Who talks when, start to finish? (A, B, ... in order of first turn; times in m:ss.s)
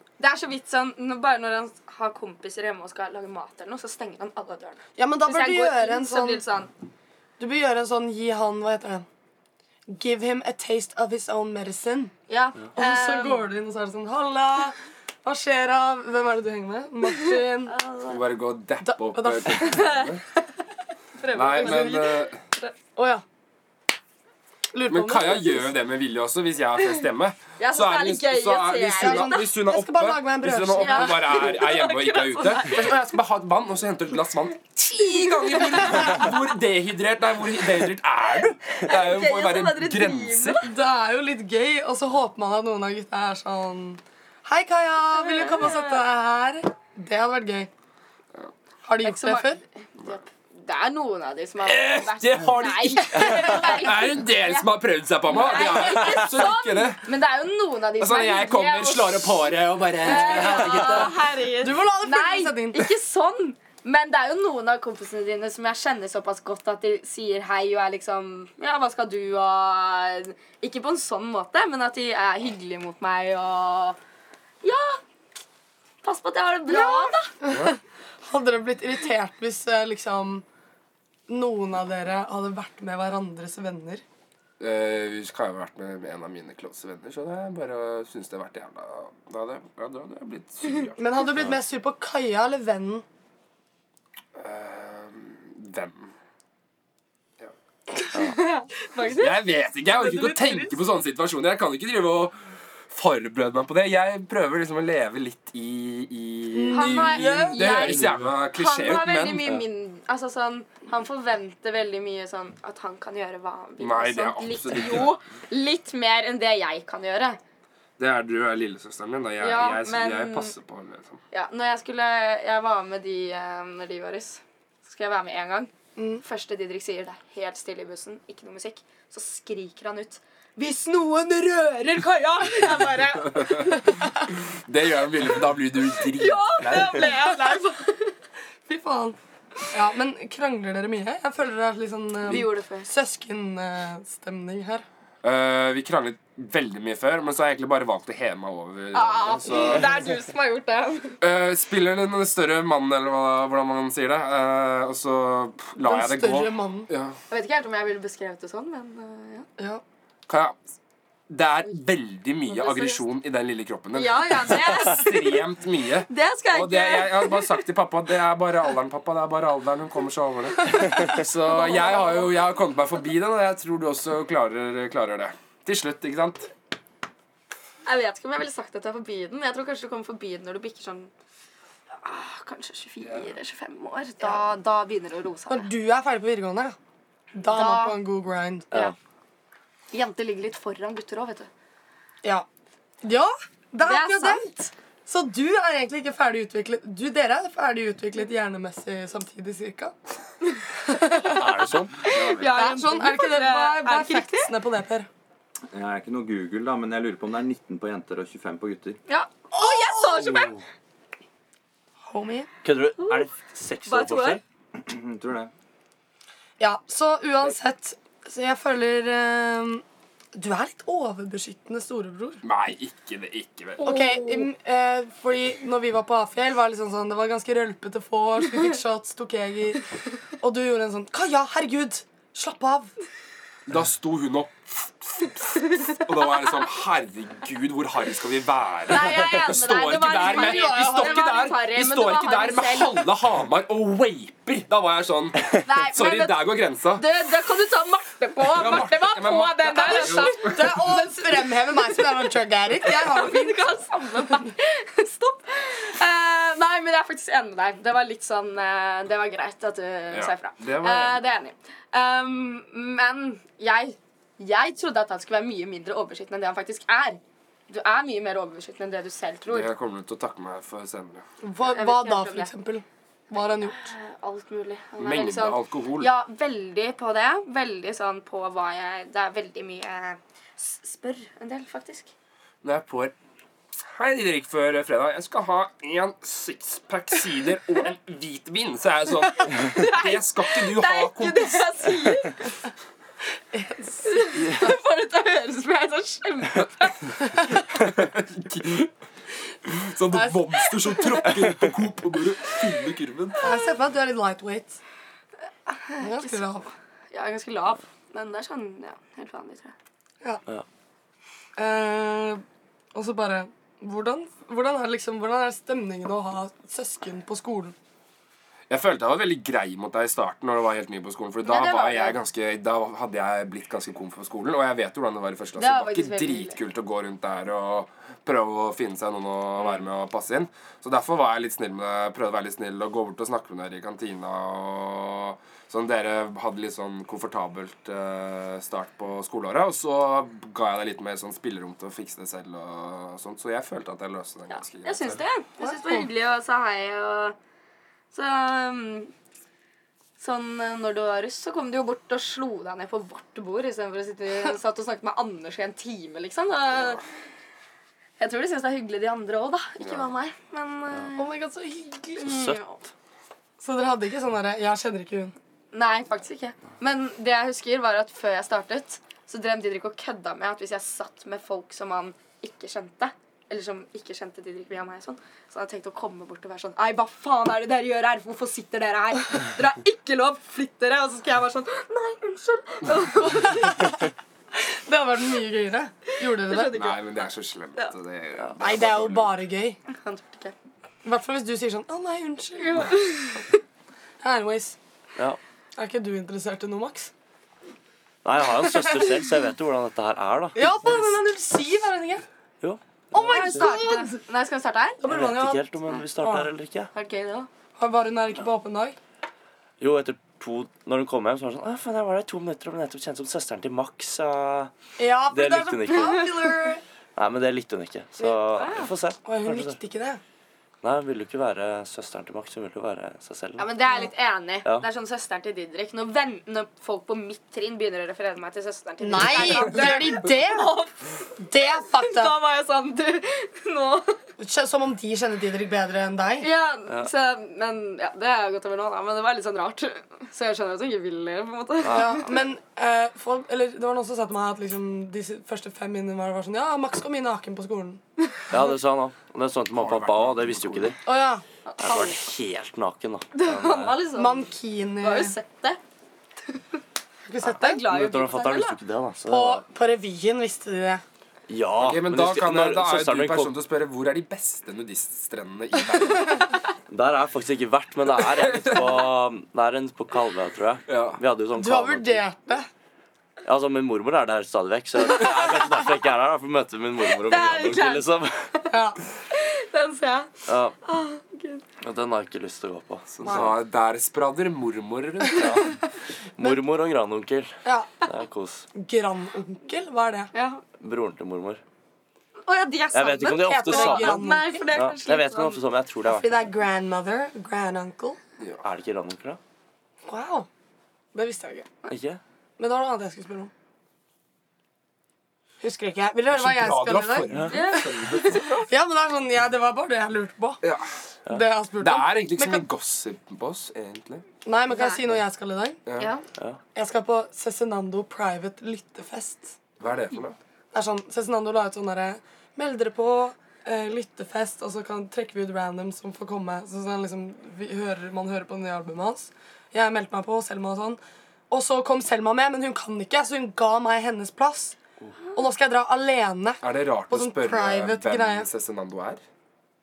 0:00.2-0:06.7 A
0:05.0-0:06.4 B
0:07.4-0:09.0 B
0:09.9-0:12.1 B
0:12.3-0:13.5 A
0:12.8-0:17.7 B
0:17.7-0:18.2 A
0:18.1-0:20.2 C
0:18.8-0:19.8 B
0:19.6-0:20.1 A
0:21.2-0:22.7 A
0:21.3-0:22.4 C
0:21.4-0:22.0 B
0:23.0-0:23.2 B
0:24.7-0:25.7 B
0:24.9-0:40.6 C
0:27.6-0:29.5 A
0:29.0-0:31.4 B
0:30.7-0:32.9 A
0:35.4-0:36.1 A
0:38.8-0:40.6 A
0:40.6-0:47.7 B
0:45.2-0:46.0 A
0:48.8-0:49.6 B
0:49.0-0:54.7 A
0:51.6-0:57.1 C
0:55.2-0:59.4 A
0:58.0-1:01.2 C
1:00.0-1:14.0 A
1:00.1-1:01.1 B
1:01.6-1:02.9 B
1:14.6-1:15.0 A
1:16.0-1:17.3 A
1:16.7-1:20.4 B
1:21.3-1:24.0 B
1:24.6-1:31.0 C
1:31.0-1:33.0 B
1:34.4-1:36.1 C
1:38.1-1:39.4 A
1:39.1-1:42.4 C
1:39.9-1:40.8 B
1:42.9-1:49.6 C
1:46.5-1:48.0 B
1:46.7-1:57.4 A
1:53.8-1:55.1 C
1:58.0-2:01.2 C
1:59.4-2:00.6 A
2:01.3-2:13.8 A
2:06.0-2:06.2 B
2:13.4-2:13.7 C
2:14.7-2:17.0 C
2:16.1-2:18.1 A
2:17.1-2:17.6 B
2:18.7-2:19.2 B
2:19.7-2:24.8 B
2:22.3-2:22.9 A
2:25.2-2:29.9 C
2:28.9-2:31.2 A
2:31.2-2:37.2 C
2:35.8-2:36.9 B
2:37.3-2:39.5 A
2:40.3-2:40.6 C
2:41.3-2:56.5 C
2:42.5-2:43.0 A
2:44.0-2:45.4 A
2:46.1-2:47.6 A
2:50.7-2:52.3 A
2:57.8-3:01.1 A
3:02.0-3:05.7 A
3:04.2-3:04.5 B
3:05.5-3:06.8 B
3:07.4-3:08.7 B
3:07.5-3:08.0 A
3:09.9-3:11.5 A
3:13.0-3:19.9 B
3:13.8-3:14.7 A
3:20.9-3:21.4 B
3:21.3-3:22.3 D
3:22.0-3:24.5 A
3:22.4-3:25.1 B
3:25.7-3:29.0 E
3:29.1-3:30.6 A
3:29.5-3:30.4 B
3:30.3-3:30.6 D
3:32.1-3:32.5 B
3:32.6-3:34.4 D
3:33.9-3:34.4 A
3:34.8-3:35.5 E
3:36.6-3:39.8 B
3:40.4-3:42.4 B
3:42.4-3:43.9 C
3:43.8-3:49.8 B
3:43.8-3:44.4 A
3:50.4-3:52.9 B
3:53.7-4:07.1 C
3:58.9-4:03.1 A
4:00.2-4:01.4 B
4:05.6-4:12.0 A
4:08.5-4:10.8 C
4:09.8-4:13.7 B
4:12.8-4:29.7 A
4:20.1-4:21.2 C
4:29.5-4:31.2 C
4:31.4-4:33.9 B
4:31.6-4:32.5 A
4:33.3-4:42.1 A
4:35.0-4:36.1 C
4:42.6-4:43.1 C
4:43.9-4:51.7 C
4:49.5-4:52.4 A
4:53.5-4:54.2 B
4:54.0-4:57.0 A
4:57.8-4:58.9 C
4:59.7-5:03.5 C
5:00.1-5:00.6 B
5:03.4-5:04.8 B
5:05.7-5:09.7 A
5:06.0-5:06.7 B
5:11.6-5:12.4 B
5:12.9-5:17.8 B
5:18.7-5:45.2 C
5:21.4-5:22.2 A
5:25.6-5:26.6 A
5:44.5-5:47.4 A
5:45.6-5:46.1 B
5:48.1-5:49.1 A
5:50.2-5:57.0 A
5:58.2-6:01.3 A
5:59.8-6:00.1 C
6:01.2-6:02.4 B
6:02.2-6:02.8 A
6:02.2-6:02.6 D
6:03.6-6:05.4 B
6:05.7-6:23.9 A
6:24.6-6:26.8 B
6:26.2-6:27.9 A
6:26.7-6:29.4 C
6:28.6-6:29.8 B
6:29.9-6:30.5 A
6:31.0-6:33.1 B
6:32.6-6:33.5 A
6:34.2-6:34.8 B
6:35.8-6:37.1 B
6:38.2-6:41.1 D
6:38.8-6:39.1 B
6:40.6-6:42.2 B
6:42.6-6:43.7 D
6:43.1-6:44.2 B
6:43.2-6:45.0 A
6:45.0-6:45.6 B
6:45.1-6:46.9 D
6:46.2-6:46.5 B
6:46.9-6:47.5 A
6:47.8-6:49.0 B
6:49.8-6:54.7 D
6:55.0-6:56.8 B
6:55.3-6:56.3 D
6:57.2-6:59.8 D
6:58.6-6:58.9 A
6:59.2-7:00.2 B
7:00.8-7:03.7 D
7:03.6-7:11.1 A
7:09.0-7:10.7 B
7:11.4-7:12.4 B
7:11.8-7:14.2 A
7:14.4-7:16.5 B
7:16.4-7:22.2 A
7:21.8-7:22.1 D
7:21.9-7:28.0 B
7:28.5-7:31.0 D
7:29.7-7:31.0 C
7:31.0-7:31.4 B
7:31.7-7:32.2 A
7:31.8-7:34.0 D
7:33.4-7:34.5 A
7:34.1-7:35.4 B
7:35.0-7:35.8 A
7:37.3-7:37.9 B
7:37.5-7:38.8 A
7:37.8-7:39.6 D
7:39.3-7:41.0 B
7:41.5-7:43.6 D
7:41.8-7:46.5 C
7:46.9-7:52.2 D
7:48.4-7:49.1 C
7:50.9-7:51.2 C
7:51.6-7:52.7 B
7:53.4-7:58.3 D
7:57.1-7:58.7 A
7:58.7-7:59.0 B
7:59.3-8:00.3 A
8:00.5-8:00.8 D
8:00.8-8:01.6 A
8:01.8-8:03.5 D
8:03.1-8:05.7 C
8:05.4-8:05.7 D
8:06.4-8:08.7 D
8:07.6-8:08.0 B
8:08.8-8:10.3 B
8:10.3-8:10.6 A
8:10.8-8:11.6 D
8:12.4-8:15.6 A
8:12.9-8:16.4 D
8:13.4-8:14.7 B
8:16.1-8:18.2 B
8:18.6-8:19.4 D
8:20.1-8:20.5 B
8:21.1-8:21.7 B
8:21.9-8:22.2 D
8:22.6-8:23.5 B
8:25.6-8:30.6 B
8:26.3-8:28.5 C
8:27.5-8:28.7 A
8:31.3-8:32.6 B
8:31.8-8:34.2 C
8:34.4-8:35.8 B
8:34.7-8:35.0 A
8:35.9-8:36.1 C
8:36.0-8:36.2 A
8:36.8-8:39.6 B
8:39.8-8:40.4 C
8:40.7-8:54.8 B
8:55.4-8:58.5 B
8:56.6-8:59.2 C